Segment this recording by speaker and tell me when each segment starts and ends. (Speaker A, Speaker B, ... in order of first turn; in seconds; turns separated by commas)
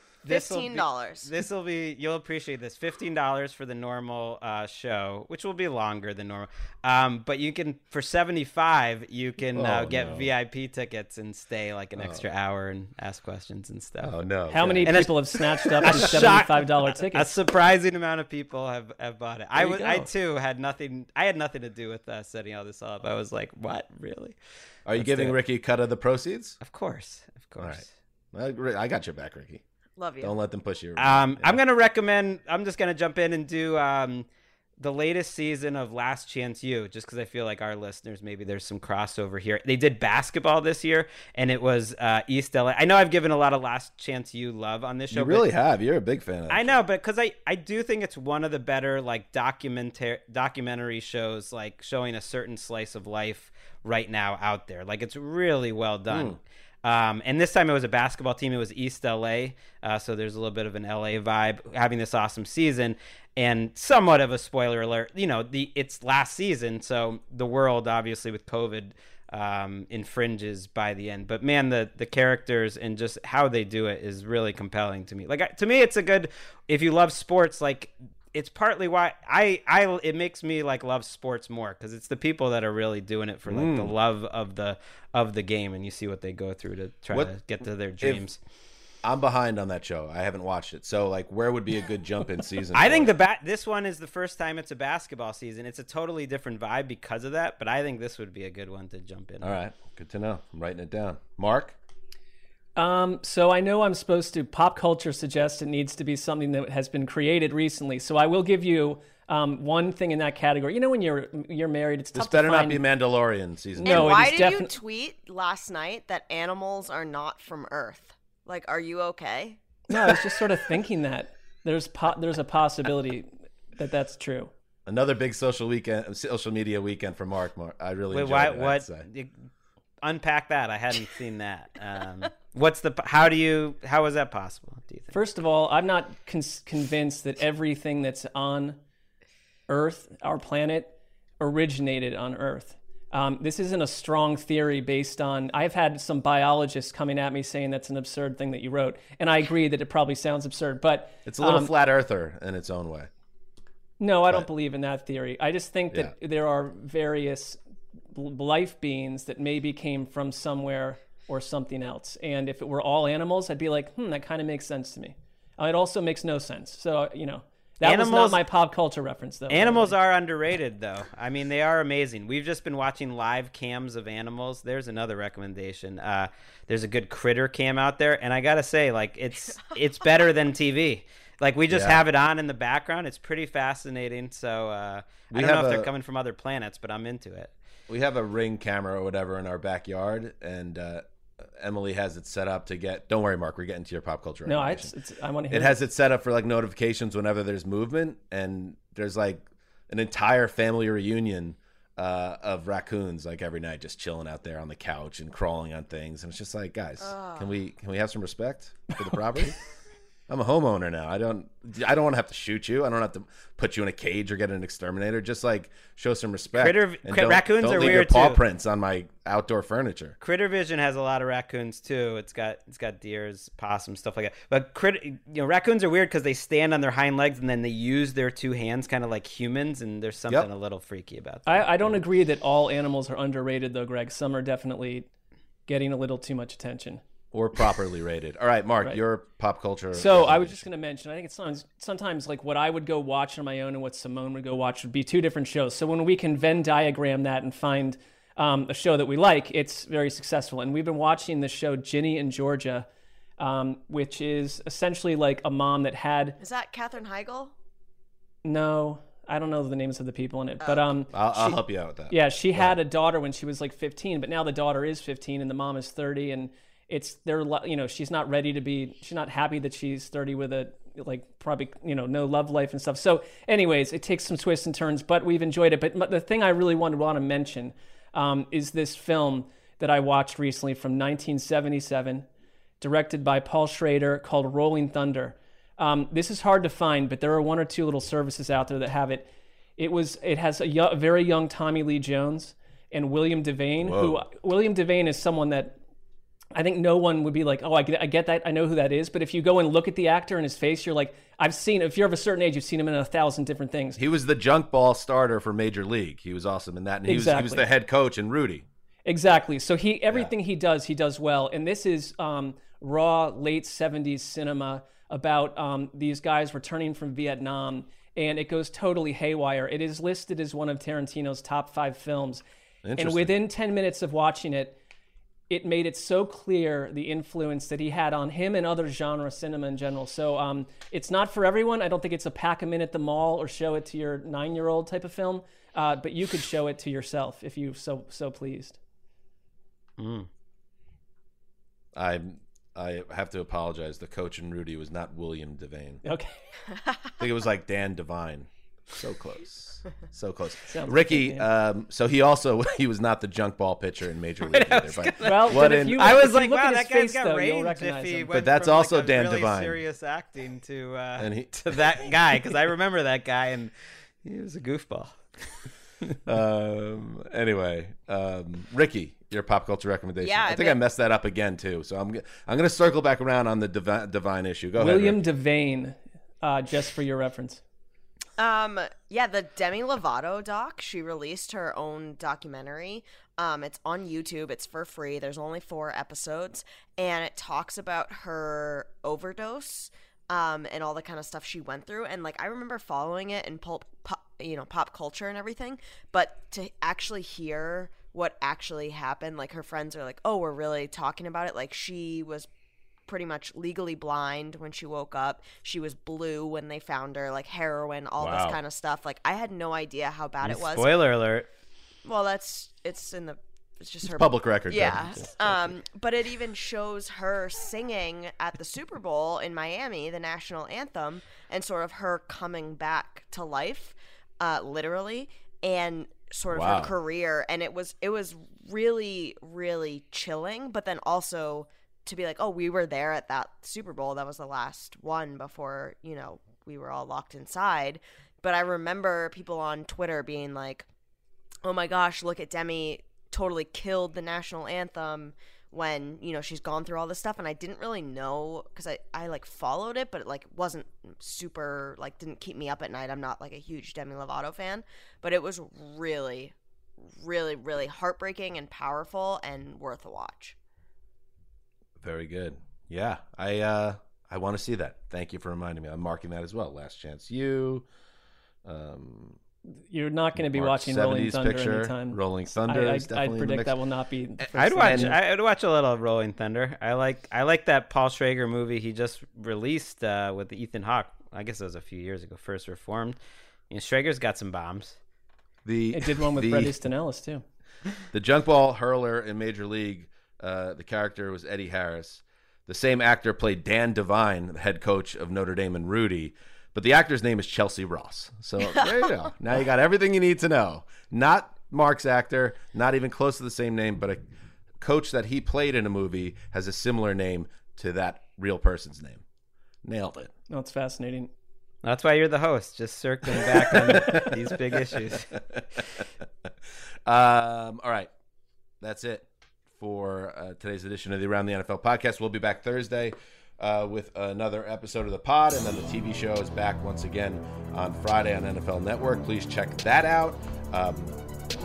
Speaker A: 0.2-14.1, Speaker B: 0.2-1.4, Speaker C: 9.5-10.3, Speaker C: 12.0-12.2, Speaker C: 14.0-15.1, Speaker D: 14.5-17.3, Speaker A: 14.8-15.2, Speaker C: 15.8-16.4, Speaker A: 15.8-24.4, Speaker C: 19.6-20.1, Speaker C: 24.9-26.6, Speaker A: 24.9-25.4, Speaker A: 26.6-27.9, Speaker C: 27.6-29.6, Speaker B: 30.0-30.3, Speaker C: 30.2-31.6, Speaker A: 31.0-34.3, Speaker A: 34.8-45.5, Speaker C: 45.1-46.8, Speaker A: 46.5-88.4, Speaker C: 56.1-56.4, Speaker C: 83.5-83.9, Speaker C: 89.0-93.1, Speaker A: 92.7-99.5, Speaker C: 99.4-101.8, Speaker D: 102.8-112.8, Speaker C: 112.1-114.3, Speaker B: 113.8-119.6, Speaker D: 113.8-114.7, Speaker D: 119.9-124.5, Speaker C: 124.8-129.1, Speaker A: 128.1-129.3, Speaker A: 130.0-135.1, Speaker D: 135.1-138.8, Speaker D: 139.7-151.7, Speaker C: 151.2-153.1, Speaker D: 154.0-157.6, Speaker D: 158.1-169.9, Speaker A: 167.8-168.4, Speaker A: 169.5-187.5, Speaker B: 179.3-180.3, Speaker C: 181.7-182.0, Speaker C: 185.3-185.9, Speaker C: 187.9-194.9, Speaker D: 194.4-195.8, Speaker C: 195.5-209.6, Speaker B: 207.0-207.6, Speaker C: 210.3-220.2, Speaker A: 216.6-218.4, Speaker A: 220.2-231.9, Speaker D: 231.5-235.1, Speaker D: 235.7-237.0, Speaker C: 237.3-240.6, Speaker D: 239.9-252.9, Speaker D: 253.4-256.4, Speaker B: 256.4-257.5, Speaker D: 258.4-282.2, Speaker B: 260.6-260.9, Speaker C: 261.1-262.7, Speaker D: 282.8-295.8, Speaker C: 293.8-294.2, Speaker D: 296.6-304.0, Speaker C: 303.9-308.6, Speaker D: 307.1-307.6, Speaker D: 309.1-322.4, Speaker C: 322.8-323.3, Speaker D: 323.0-324.8, Speaker D: 325.5-338.8, Speaker A: 340.0-340.3, Speaker C: 341.9-346.0, Speaker D: 346.0-346.3, Speaker C: 347.2-356.2, Speaker D: 350.7-351.5, Speaker A: 354.5-363.7, Speaker D: 355.2-358.3, Speaker C: 358.3-359.8, Speaker C: 361.2-361.8, Speaker A: 364.2-365.2, Speaker C: 366.3-375.2, Speaker B: 370.2-370.8, Speaker D: 374.8-377.6, Speaker B: 378.4-402.5, Speaker B: 403.1-411.1, Speaker C: 408.2-408.6, Speaker A: 410.4-411.5, Speaker B: 412.0-440.9, Speaker C: 414.1-415.3, Speaker C: 426.5-426.9, Speaker B: 441.6-456.5, Speaker B: 457.0-460.5, Speaker C: 462.0-467.9, Speaker C: 468.6-469.4, Speaker D: 469.9-475.2, Speaker C: 470.4-473.8, Speaker A: 474.5-483.2, Speaker C: 474.8-475.1, Speaker A: 483.7-485.0, Speaker C: 485.6-486.8, Speaker D: 485.9-487.4, Speaker C: 488.1-504.2, Speaker B: 498.7-499.2, Speaker C: 504.8-509.2, Speaker C: 509.8-510.3, Speaker D: 510.5-511.3, Speaker A: 511.8-515.3, Speaker C: 513.3-516.0, Speaker C: 517.0-518.1, Speaker C: 518.8-531.2